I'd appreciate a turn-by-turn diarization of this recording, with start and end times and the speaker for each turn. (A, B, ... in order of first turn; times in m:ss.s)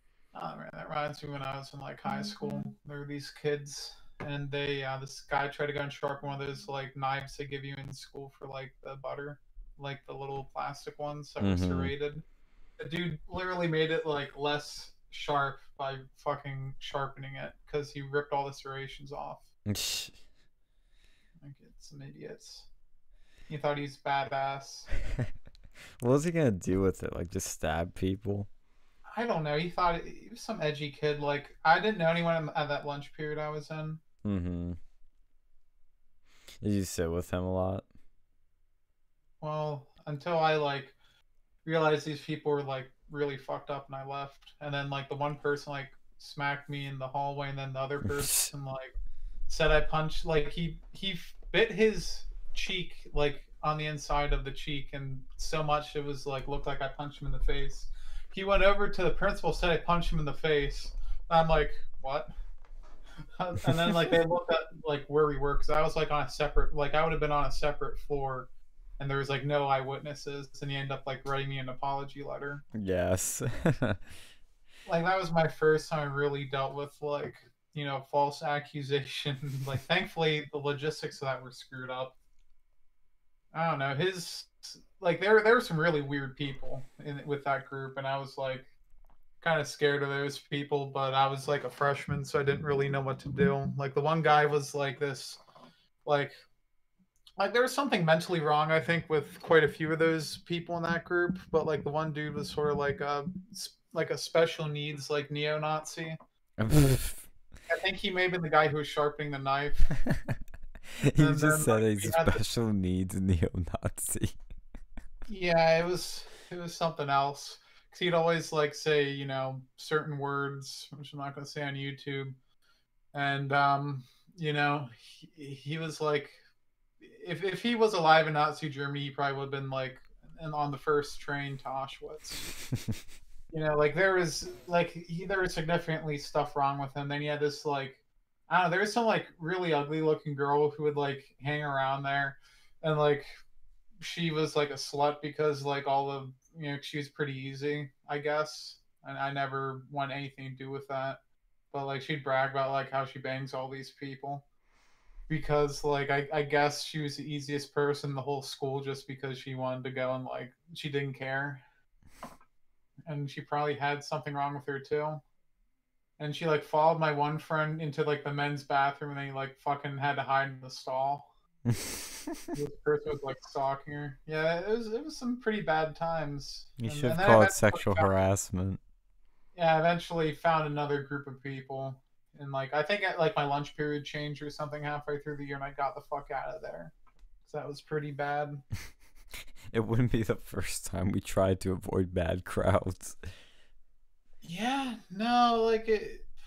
0:00.3-0:12.2 A
0:11.4-0:11.9 B
0:12.8-0:19.5 A
0:19.7-0:20.2 B
0:21.4-0:22.7 A
0:23.5-0:24.9 A
0:26.0-0:28.5 B
0:29.1-0:34.0 A
0:34.2-0:34.8 B
0:36.6-0:37.9 B
0:39.4-0:41.0 A
0:41.6-0:48.9 A
0:48.0-0:48.5 B
0:49.5-1:02.3 A
1:03.4-1:12.6 A
1:12.7-1:14.0 B
1:14.8-1:22.2 A
1:23.5-1:28.7 A
1:29.4-1:35.4 A
1:36.0-1:36.3 A
1:37.4-1:46.2 A
1:46.6-1:47.3 B
1:47.7-1:49.9 A
1:51.0-1:54.4 B
1:51.2-1:52.4 A
1:55.2-2:02.4 A
2:03.1-2:06.4 A
2:07.0-2:12.5 A
2:13.5-2:23.3 A
2:24.0-2:31.2 A
2:31.7-2:34.4 A
2:35.3-2:41.6 A
2:43.0-2:45.2 A
2:46.2-2:51.3 A
2:51.6-2:52.6 B
2:52.5-2:58.2 A
2:56.8-2:58.8 B
2:59.5-3:06.9 A
3:07.4-3:08.6 A
3:09.7-3:13.2 B
3:14.4-3:16.3 A